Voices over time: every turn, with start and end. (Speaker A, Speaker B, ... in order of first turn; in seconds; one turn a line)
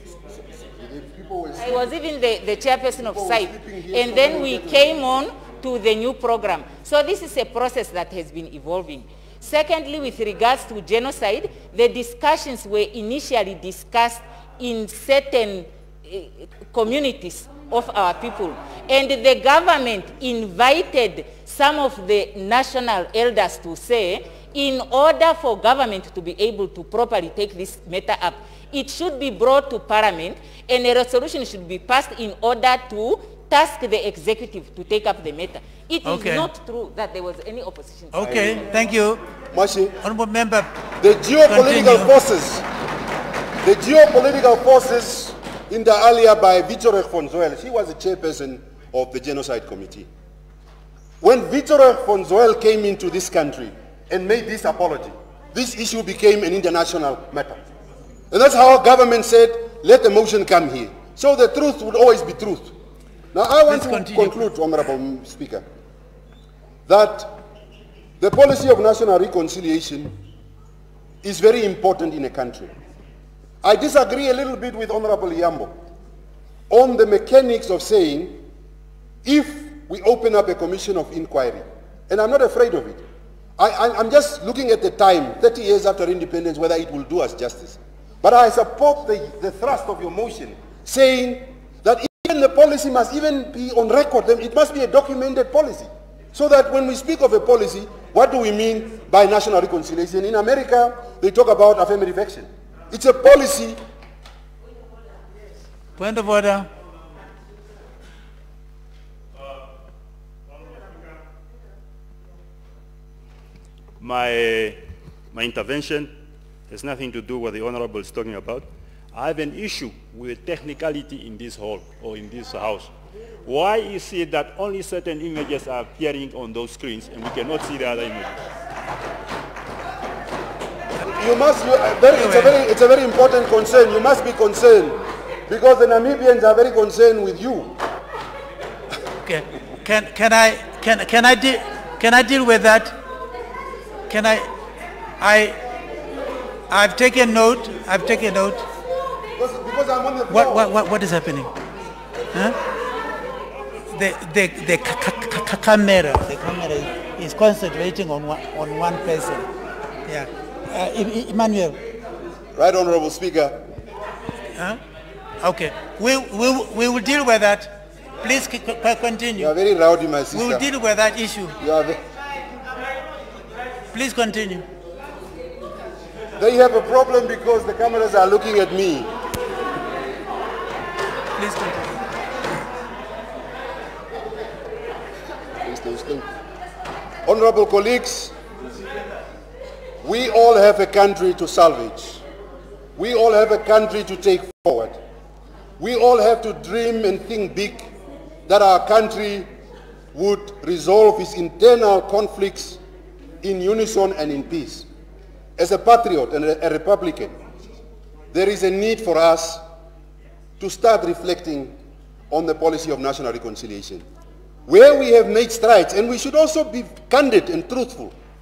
Speaker A: 0.1-1.9
Speaker B: 1.6-38.3
Speaker A: 2.9-5.1
Speaker C: 36.0-36.5
Speaker C: 38.1-39.2
Speaker A: 38.2-38.7
Speaker A: 39.5-40.0
Speaker C: 40.0-40.8
Speaker A: 41.0-42.7
Speaker C: 41.5-42.1
Speaker A: 43.6-50.1
Speaker A: 51.2-57.6
Speaker A: 58.3-62.8
Speaker A: 63.3-65.6
Speaker C: 63.7-64.4
Speaker A: 66.9-67.4
Speaker A: 68.2-70.1
Speaker A: 71.2-72.7
Speaker A: 73.6-75.7
Speaker A: 76.7-78.4
Speaker A: 79.2-83.0
Speaker A: 83.6-103.8
Speaker C: 106.0-106.7
Speaker D: 114.0-116.1
Speaker D: 116.7-122.9
Speaker D: 123.4-128.4
Speaker A: 131.1-137.8
Speaker C: 132.2-132.6
Speaker C: 139.2-142.9
Speaker C: 144.1-144.5
Speaker C: 145.2-145.6
Speaker C: 146.7-148.6
Speaker A: 149.4-150.7
Speaker C: 150.3-151.5
Speaker C: 153.9-159.5
Speaker C: 160.1-161.8
Speaker A: 162.5-163.7
Speaker C: 165.4-169.5
Speaker A: 169.4-170.6
Speaker C: 170.3-171.6
Speaker A: 171.6-172.0
Speaker C: 173.9-174.7
Speaker A: 176.4-179.1
Speaker C: 181.4-182.0
Speaker A: 185.6-186.3
Speaker A: 187.2-188.3
Speaker A: 190.0-192.2
Speaker A: 192.9-195.0
Speaker A: 195.8-197.9
Speaker A: 198.4-199.5
Speaker A: 200.1-202.8
Speaker A: 203.4-204.9
Speaker A: 205.6-207.4
Speaker A: 208.3-209.6
Speaker A: 210.6-211.8
Speaker A: 212.3-214.1
Speaker A: 214.7-218.1